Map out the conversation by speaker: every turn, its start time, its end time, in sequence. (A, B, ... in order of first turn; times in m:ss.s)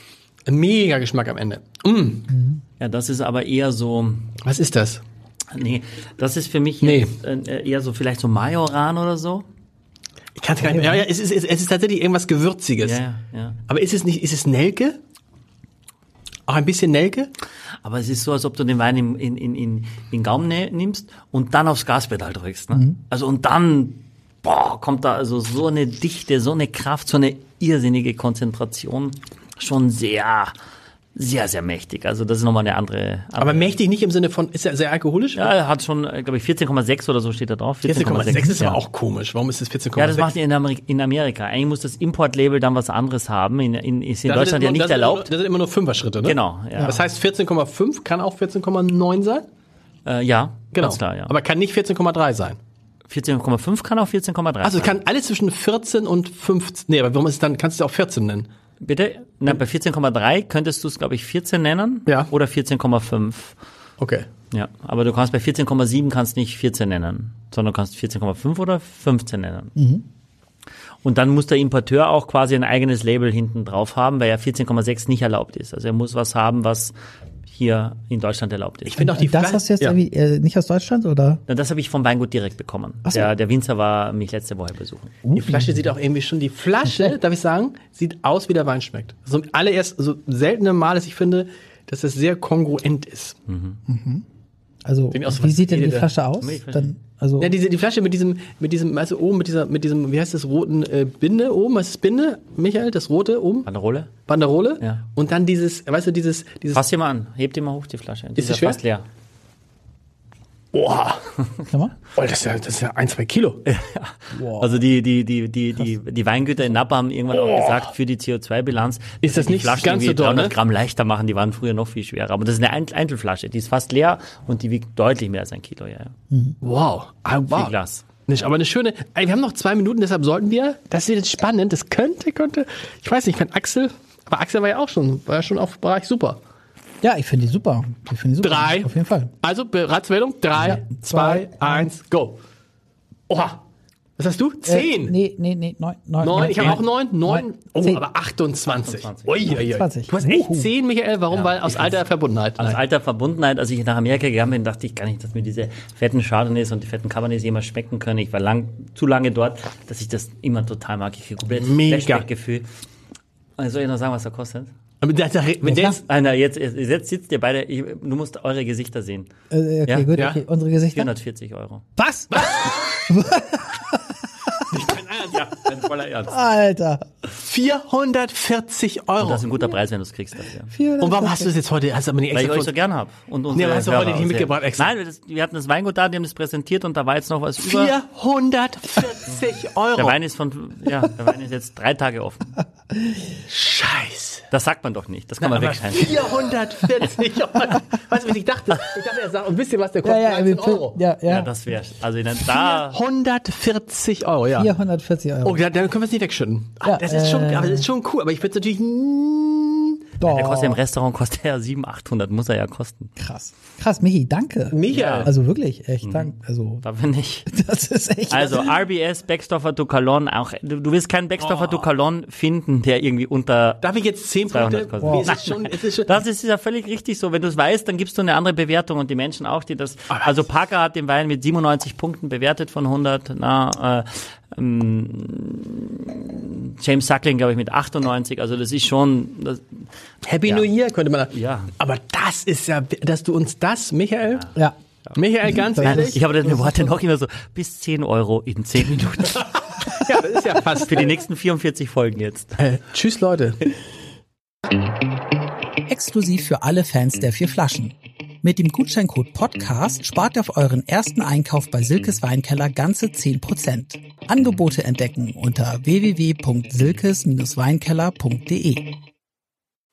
0:00.4-0:02.4 A
0:02.8-0:04.3 B
0:04.4-0:05.0 A
0:05.5-0:09.4 B
0:06.8-0:07.1 A
0:10.4-0:13.0 A
0:10.7-0:11.0 C
0:12.8-0:13.6 B
0:13.7-0:15.0 A
0:16.5-0:17.3 A
0:17.8-0:30.5 B
0:31.1-0:33.7 B
0:33.4-0:35.5 A
0:35.3-0:38.8 B
0:37.8-0:40.3 A
0:40.0-0:45.3 B
0:44.2-0:49.4 A
0:46.2-0:47.0 B
0:50.0-0:51.3 B
0:50.7-0:52.6 A
0:53.1-0:55.0 B
0:54.6-0:58.5 A
0:58.8-1:03.6 B
1:04.0-1:04.3 A
1:04.5-1:09.7 B
1:09.8-1:10.0 C
1:11.0-1:16.9 B
1:17.5-1:19.0 B
1:18.8-1:20.0 A
1:19.0-1:21.4 C
1:21.5-1:25.2 B
1:25.2-1:25.8 C
1:25.3-1:33.4 A
1:33.5-1:33.8 B
1:33.9-1:34.2 C
1:34.8-1:37.5 C
1:35.1-1:36.1 A
1:36.4-1:37.0 B
1:37.4-1:43.7 A
1:43.6-1:44.1 B
1:44.2-1:46.8 A
1:46.7-1:49.0 B
1:48.4-1:48.8 A
1:50.7-1:51.7 B
1:51.7-1:52.0 C
1:52.1-1:53.6 A
1:53.6-2:06.1 B
1:54.3-1:54.8 C
1:57.3-1:57.7 A
1:59.2-2:00.5 A
2:06.6-2:07.7 A
2:07.5-2:08.1 B
2:08.3-2:16.4 A
2:17.0-2:19.3 C
2:18.4-2:22.4 A
2:20.6-2:21.9 C
2:23.3-2:23.6 A
2:24.2-2:25.2 A
2:24.7-2:28.0 C
2:26.2-2:32.8 A
2:26.3-2:26.8 B
2:28.8-2:29.6 B
2:29.6-2:30.7 C
2:31.3-2:32.0 B
2:32.6-2:42.7 B
2:41.5-2:42.2 A
2:43.6-2:44.7 B
2:45.0-2:46.0 A
2:45.6-2:46.0 C
2:45.8-2:49.3 B
2:49.5-2:51.1 C
2:49.8-2:50.1 B
2:50.1-2:50.4 A
2:50.9-2:51.9 B
2:52.0-2:54.6 C
2:52.3-2:52.9 A
2:54.7-2:55.6 A
2:55.3-2:56.4 B
2:56.3-2:57.1 C
2:57.4-2:59.5 A
2:59.2-3:00.7 B
3:00.7-3:01.5 C
3:01.0-3:02.7 A
3:02.3-3:08.0 B
3:03.5-3:04.9 A
3:07.6-3:10.2 A
3:09.9-3:12.6 B
3:12.9-3:13.2 C
3:13.5-3:14.4 A
3:14.5-3:16.3 B
3:15.4-3:21.0 A
3:20.0-3:21.5 C
3:21.2-3:23.0 B
3:22.4-3:24.7 A
3:24.5-3:25.6 C
3:25.4-3:30.0 A
3:26.8-3:27.8 C
3:30.2-3:30.8 C
3:30.2-3:33.1 B
3:33.2-3:36.8 C
3:34.7-3:35.3 A
3:34.9-3:35.3 B
3:36.0-3:37.5 B
3:37.5-3:38.7 C
3:38.3-3:43.8 B
3:41.4-3:41.9 A
3:43.8-3:46.1 A
3:44.5-3:59.9 B
3:45.0-3:45.3 C
4:00.2-4:04.5 A
4:01.3-4:01.7 B
4:05.1-4:06.3 A
4:05.4-4:06.8 C
4:05.8-4:10.0 B
4:10.0-4:11.2 A
4:10.7-4:12.6 B
4:12.6-4:13.6 A
4:15.9-4:28.9 C